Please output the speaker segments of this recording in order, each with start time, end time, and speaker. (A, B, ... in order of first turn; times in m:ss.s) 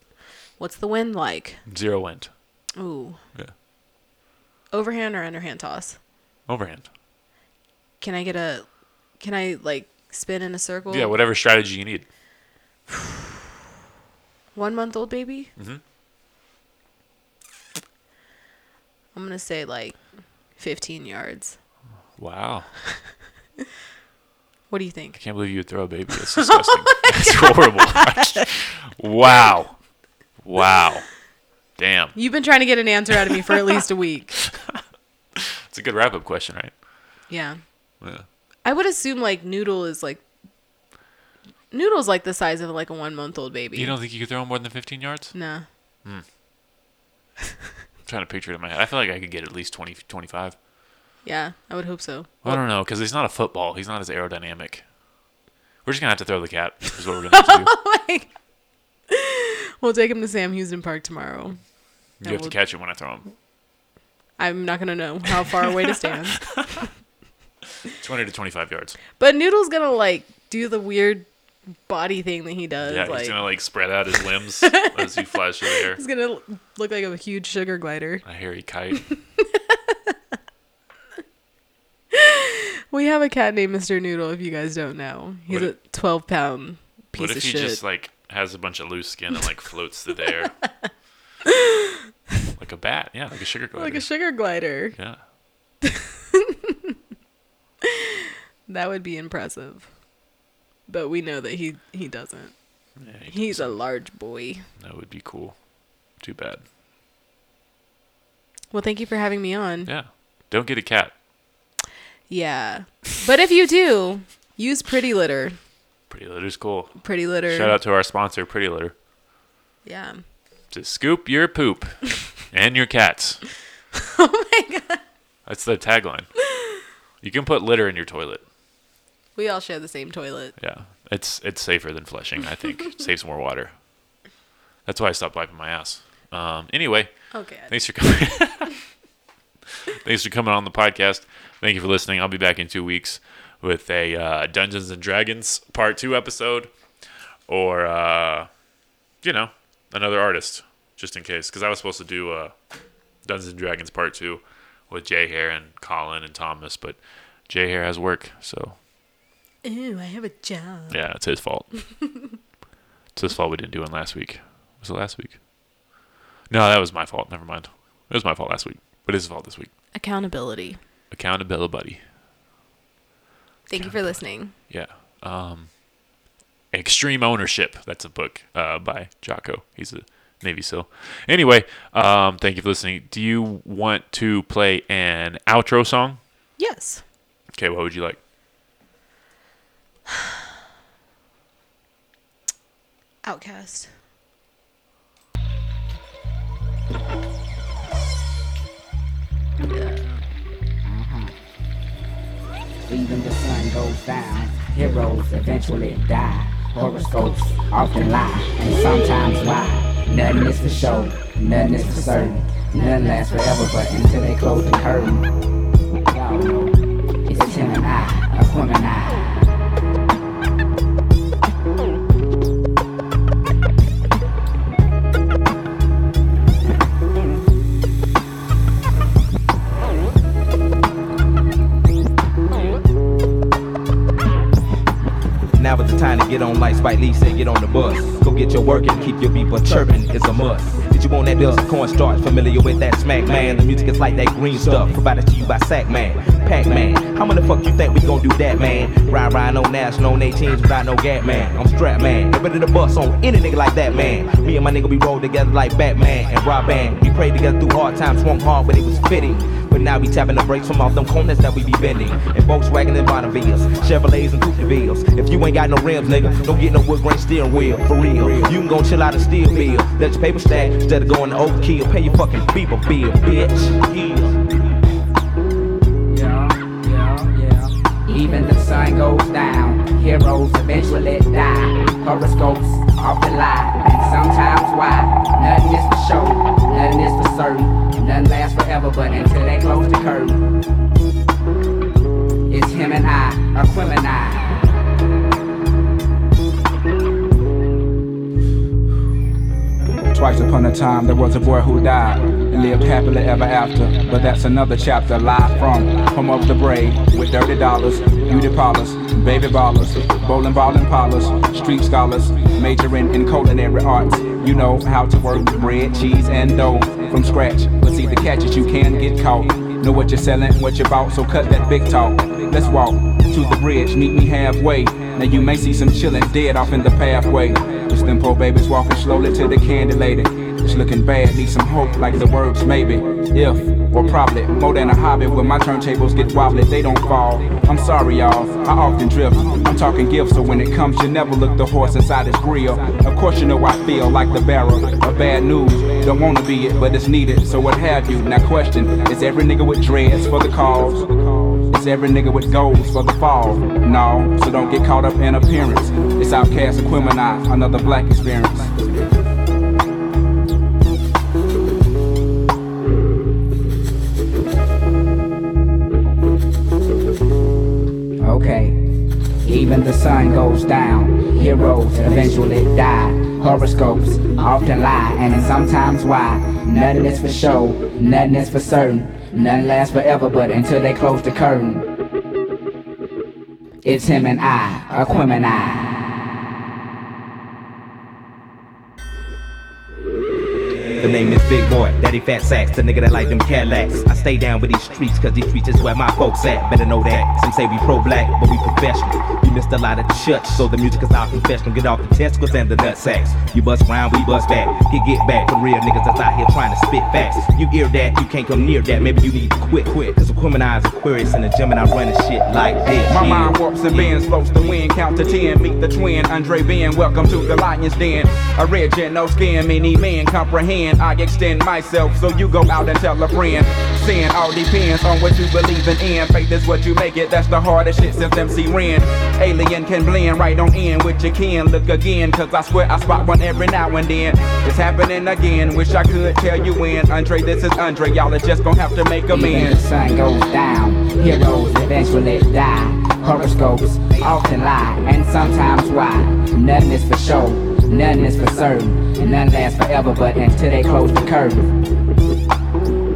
0:00.6-0:01.6 A
0:01.6-0:02.6 B
0:02.8-0:03.2 A
0:04.7-0:06.0 A
0:06.5-0:06.9 B
0:08.0-0:11.1 A
0:10.9-0:12.1 B
0:14.5-0:15.5 A
0:15.6-0:15.8 B
0:19.1-0:21.6 A
0:22.2-0:22.8 B
0:24.7-0:25.2 A
0:25.2-0:29.8 B
0:26.6-0:28.4 A
0:30.4-0:31.2 B
0:31.8-0:32.3 B
0:32.1-0:34.4 A
0:35.4-0:36.8 B
0:37.3-0:37.6 A
0:38.0-0:38.2 B
0:38.6-0:40.2 A
0:41.7-0:44.0 A
0:43.7-0:46.2 B
0:45.3-0:45.6 A
0:48.0-0:50.6 B
0:51.2-0:52.6 A
0:52.4-0:54.9 B
0:55.8-0:57.7 B
0:57.3-0:58.3 A
0:59.1-1:02.6 A
1:02.2-1:03.3 B
1:04.4-1:06.9 A
1:08.0-1:09.0 B
1:09.2-1:13.4 A
1:12.8-1:16.0 B
1:14.7-1:18.2 A
1:18.2-1:19.1 B
1:19.5-1:20.1 A
1:22.1-1:27.8 A
1:25.5-1:25.7 B
1:27.1-1:30.7 B
1:30.5-1:30.9 A
1:32.5-1:35.2 B
1:33.8-1:35.0 A
1:38.7-1:40.0 A
1:40.9-1:44.7 A
1:43.0-1:44.0 B
1:44.8-1:46.6 B
1:48.7-1:49.9 A
1:49.8-1:51.1 B
1:52.3-1:55.6 A
1:56.1-1:58.9 B
1:57.0-1:57.8 A
1:59.8-2:00.2 A
2:00.7-2:03.4 B
2:04.2-2:05.0 A
2:05.4-2:06.3 B
2:07.2-2:08.4 B
2:09.3-2:10.6 A
2:10.6-2:13.7 B
2:14.8-2:18.8 B
2:17.3-2:18.2 A
2:19.9-2:26.7 B
2:27.5-2:28.6 B
2:29.2-2:32.5 B
2:33.2-2:38.8 B
2:39.6-2:41.2 A
2:40.9-2:42.0 B
2:43.1-2:45.4 B
2:46.5-2:49.7 B
2:49.9-2:50.8 A
2:51.1-2:52.0 B
2:53.7-2:54.5 A
2:53.7-2:55.8 B
2:56.7-3:06.2 B
3:06.6-3:07.0 A
3:07.5-3:08.2 B
3:13.2-3:13.9 A
3:19.6-3:20.2 A
3:20.8-3:21.3 C
3:22.9-3:35.3 C
3:36.1-3:39.2 C
3:55.5-4:34.4 D
4:36.1-4:50.4 C
4:52.5-4:54.6 C
5:00.1-5:58.9 E
6:08.2-6:08.8 C
6:09.4-6:21.8 C
6:23.8-6:25.9 C
6:31.0-6:54.1 D
6:53.0-7:19.8 E
7:19.3-7:31.7 C